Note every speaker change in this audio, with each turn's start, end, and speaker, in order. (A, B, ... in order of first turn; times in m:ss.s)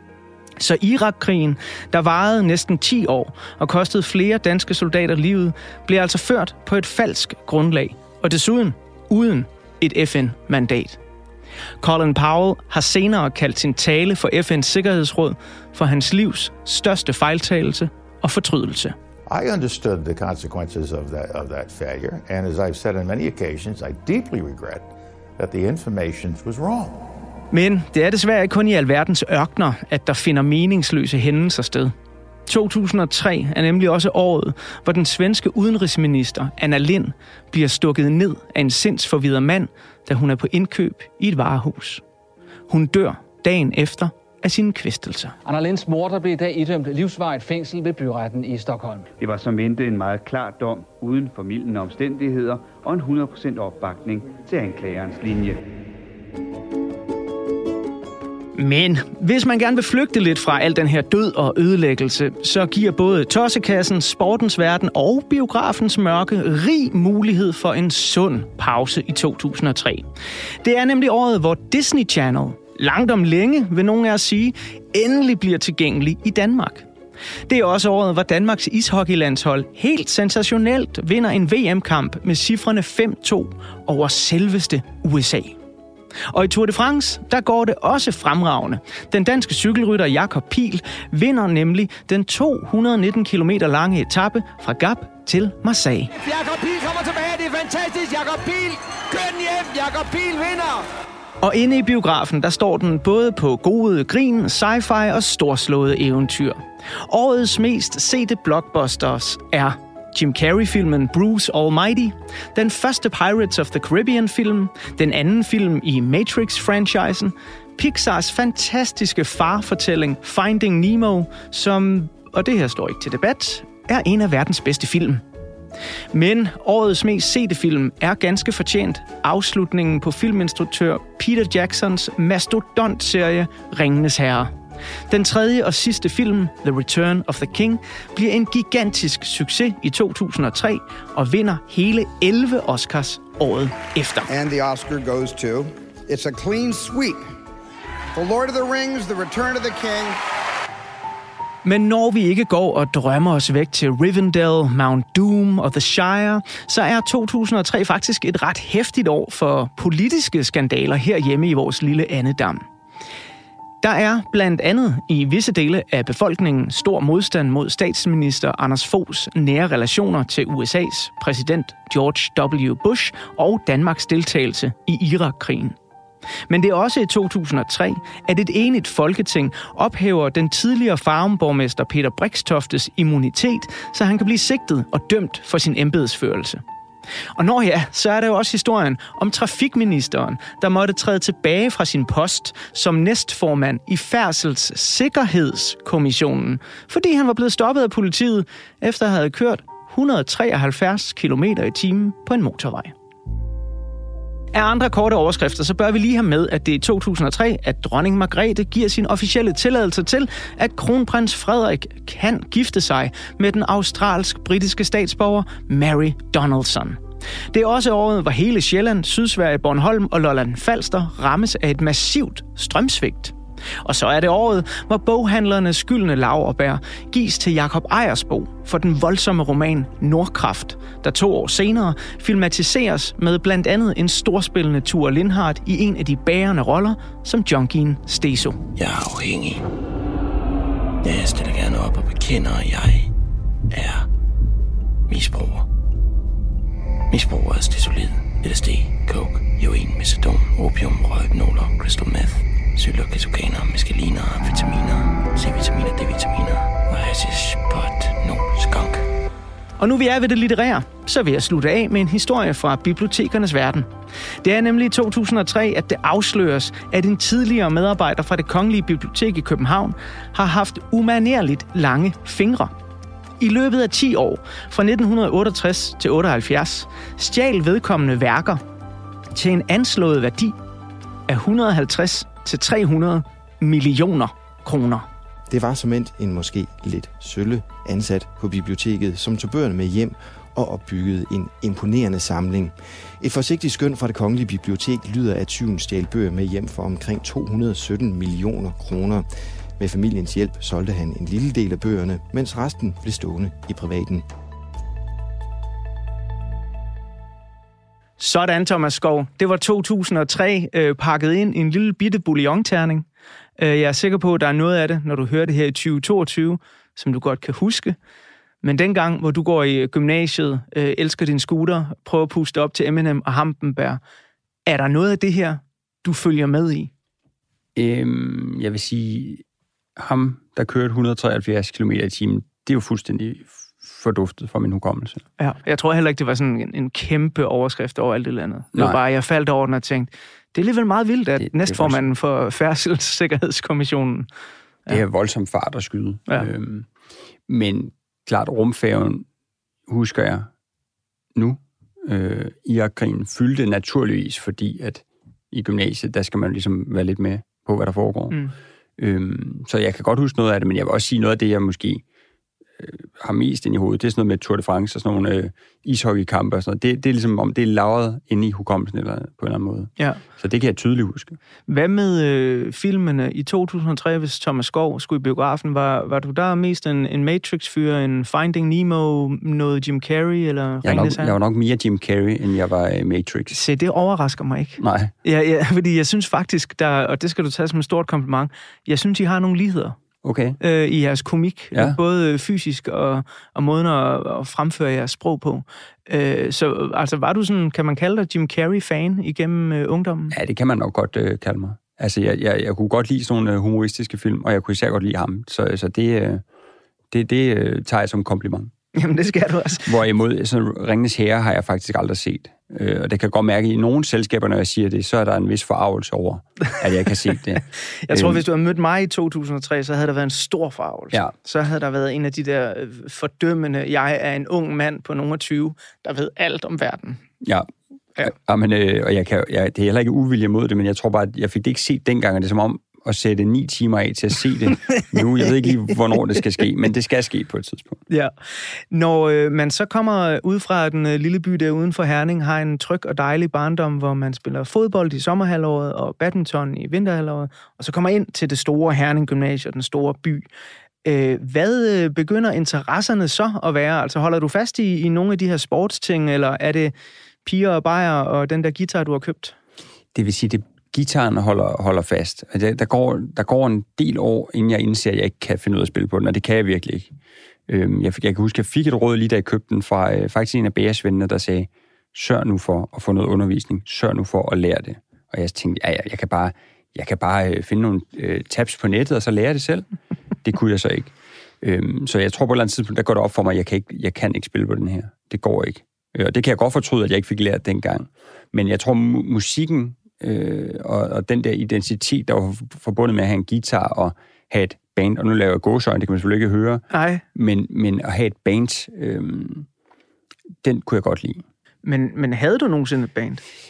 0:00.6-0:11.0 A
0:11.8-0:18.9 A
0:19.3-0:27.0 B
0:27.5-0:31.9 A
0:32.5-0:42.0 A
0:42.7-0:45.4 A
0:45.4-0:49.0 C
0:49.2-0:55.6 D
0:58.6-1:10.0 A
1:10.6-1:16.8 A
1:17.5-1:25.6 A
1:26.3-1:36.1 A
1:36.2-1:40.8 E
1:41.4-2:05.2 A
2:06.1-2:14.5 A
2:15.1-2:24.3 A
2:24.3-2:27.2 F
2:28.1-2:30.2 F
2:31.6-2:42.6 A
2:43.8-2:55.8 A
2:56.5-3:06.6 A
3:07.4-3:22.9 A
3:24.5-3:37.0 A
3:37.5-3:58.6 A
3:58.8-3:59.7 G
4:01.0-4:03.1 G
4:03.7-4:04.1 G
4:05.1-4:05.6 G
4:07.1-4:19.0 G
4:19.8-4:23.9 A
4:24.4-4:32.7 A
4:33.4-4:38.6 A
4:39.3-4:40.5 A
4:41.3-4:45.0 A
4:45.5-4:59.3 H
4:59.8-5:04.2 H
5:08.2-5:13.0 A
5:13.6-5:18.0 A
5:18.6-5:24.0 A
5:24.6-5:26.9 A
5:27.7-5:29.4 I
5:30.0-5:35.2 I
5:35.4-5:44.3 A
5:38.7-5:39.0 I
5:41.4-5:42.0 I
5:44.9-5:46.9 I
5:47.5-5:49.2 I
5:49.9-5:50.5 I
5:51.3-5:58.4 I
5:58.3-5:58.5 A
5:59.0-6:02.0 I
6:02.8-6:11.4 I
6:11.7-6:21.3 A
6:20.8-6:23.6 I
6:23.5-6:30.0 A
6:24.8-6:25.1 I
6:30.2-6:30.6 I
6:30.6-6:40.3 A
6:40.3-6:46.4 I
6:47.1-6:48.7 I
6:48.9-6:49.9 A
6:49.8-6:58.4 I
6:58.0-7:07.2 A
7:07.4-7:18.0 I
7:18.9-7:30.4 A
7:31.0-7:36.9 A
7:37.4-7:39.5 A
7:40.1-7:47.1 I
7:47.7-7:59.8 I
8:00.4-8:19.7 I
8:16.9-8:17.2 A
8:20.6-8:21.4 I
8:21.8-8:23.4 A